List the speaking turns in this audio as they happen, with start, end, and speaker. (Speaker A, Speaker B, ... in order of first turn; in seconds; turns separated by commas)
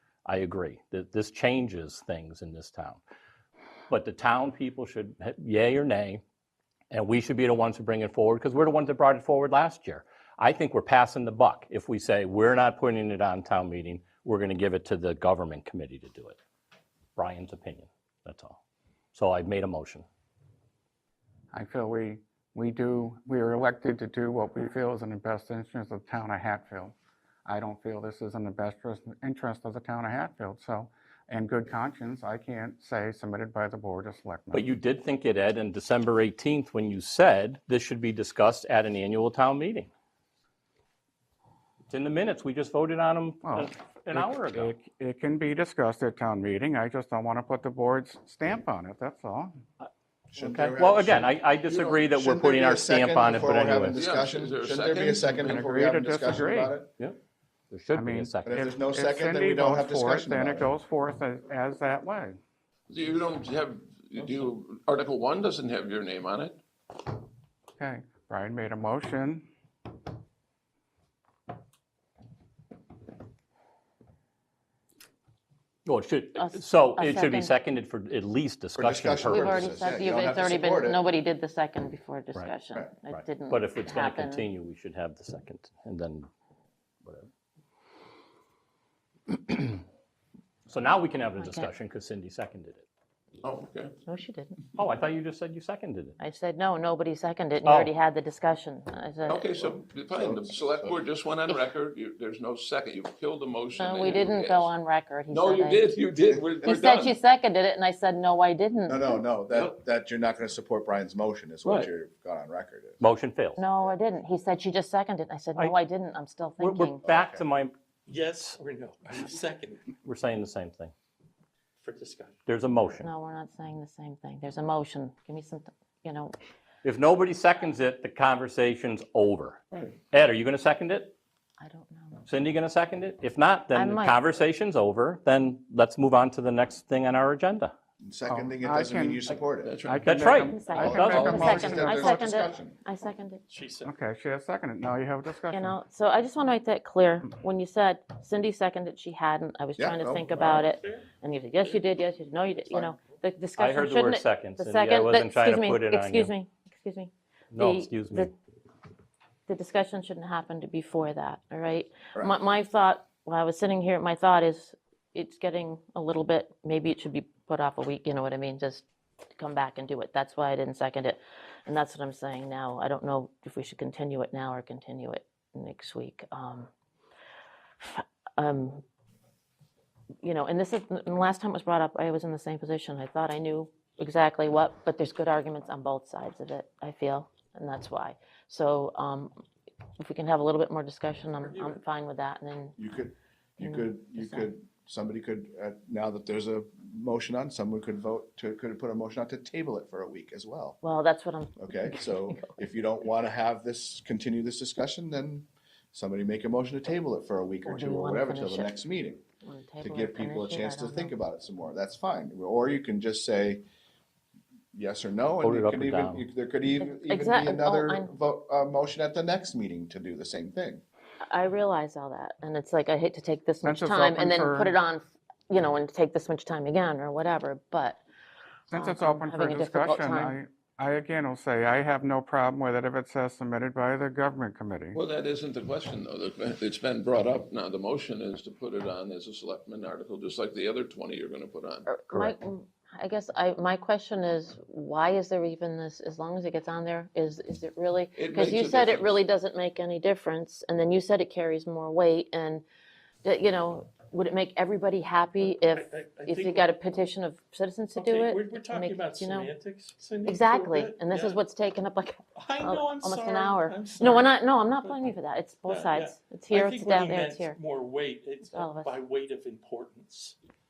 Speaker A: 0.2-3.0, Speaker A: 3.9-6.2, Speaker A: 6.9-16.4, Speaker A: 17.2-18.6, Speaker A: 19.1-20.1, Speaker B: 21.5-26.9, Speaker B: 27.4-34.7, Speaker A: 34.5-39.9, Speaker A: 41.9-44.7, Speaker B: 43.4-49.6, Speaker A: 49.8-54.0, Speaker C: 50.3-51.4, Speaker D: 51.7-52.1, Speaker C: 52.1-56.9, Speaker D: 53.9-55.7, Speaker B: 55.5-56.8, Speaker A: 57.7-58.6, Speaker B: 57.9-62.4, Speaker C: 58.5-60.7, Speaker D: 62.9-66.6, Speaker B: 67.8-69.5, Speaker A: 75.8-79.8, Speaker E: 76.3-77.5, Speaker C: 78.8-81.0, Speaker E: 79.3-84.5, Speaker A: 83.1-86.3, Speaker A: 89.3-89.8, Speaker A: 90.7-92.8, Speaker E: 91.4-91.7, Speaker D: 93.4-94.0, Speaker E: 94.1-94.6, Speaker A: 94.8-96.2, Speaker E: 96.2-99.7, Speaker A: 97.7-97.9, Speaker D: 99.2-104.7, Speaker C: 100.2-100.9, Speaker E: 103.8-105.9, Speaker D: 105.3-107.2, Speaker E: 106.6-109.2, Speaker C: 108.9-113.0, Speaker A: 111.6-111.9, Speaker A: 113.0-113.6, Speaker E: 113.6-117.0, Speaker A: 116.6-117.7, Speaker C: 117.0-117.4, Speaker F: 118.1-119.9, Speaker A: 120.0-120.9, Speaker F: 121.8-122.4, Speaker A: 122.5-123.1, Speaker E: 123.0-126.3, Speaker A: 126.8-131.2, Speaker E: 131.6-132.3, Speaker A: 132.3-137.7, Speaker E: 133.7-134.2, Speaker C: 138.0-139.7, Speaker B: 138.2-142.3, Speaker D: 139.6-141.9, Speaker A: 140.1-141.6, Speaker E: 140.5-143.4, Speaker C: 140.8-142.8, Speaker F: 143.5-143.9, Speaker B: 143.8-145.8, Speaker E: 145.5-158.3, Speaker C: 149.8-150.7, Speaker F: 150.4-151.1, Speaker A: 153.6-156.3, Speaker A: 157.5-158.3, Speaker E: 159.5-168.8, Speaker E: 169.4-176.7, Speaker E: 177.8-178.8, Speaker E: 180.2-189.4, Speaker E: 190.0-192.8, Speaker F: 191.4-191.8, Speaker C: 192.8-200.8, Speaker E: 193.6-194.5, Speaker E: 200.8-202.6, Speaker C: 201.6-209.2, Speaker E: 207.7-208.8, Speaker E: 209.4-211.2, Speaker C: 209.8-213.6, Speaker C: 214.7-220.8, Speaker A: 215.4-216.2, Speaker E: 216.8-218.1, Speaker E: 221.2-228.0, Speaker B: 223.6-224.8, Speaker E: 228.7-230.4, Speaker B: 228.7-235.0, Speaker D: 234.9-241.9, Speaker E: 241.9-252.6, Speaker D: 248.2-249.2, Speaker E: 253.2-259.5, Speaker F: 255.4-256.7, Speaker F: 257.9-261.4, Speaker E: 260.2-267.6, Speaker F: 262.4-265.1, Speaker F: 265.6-270.4, Speaker E: 268.5-269.0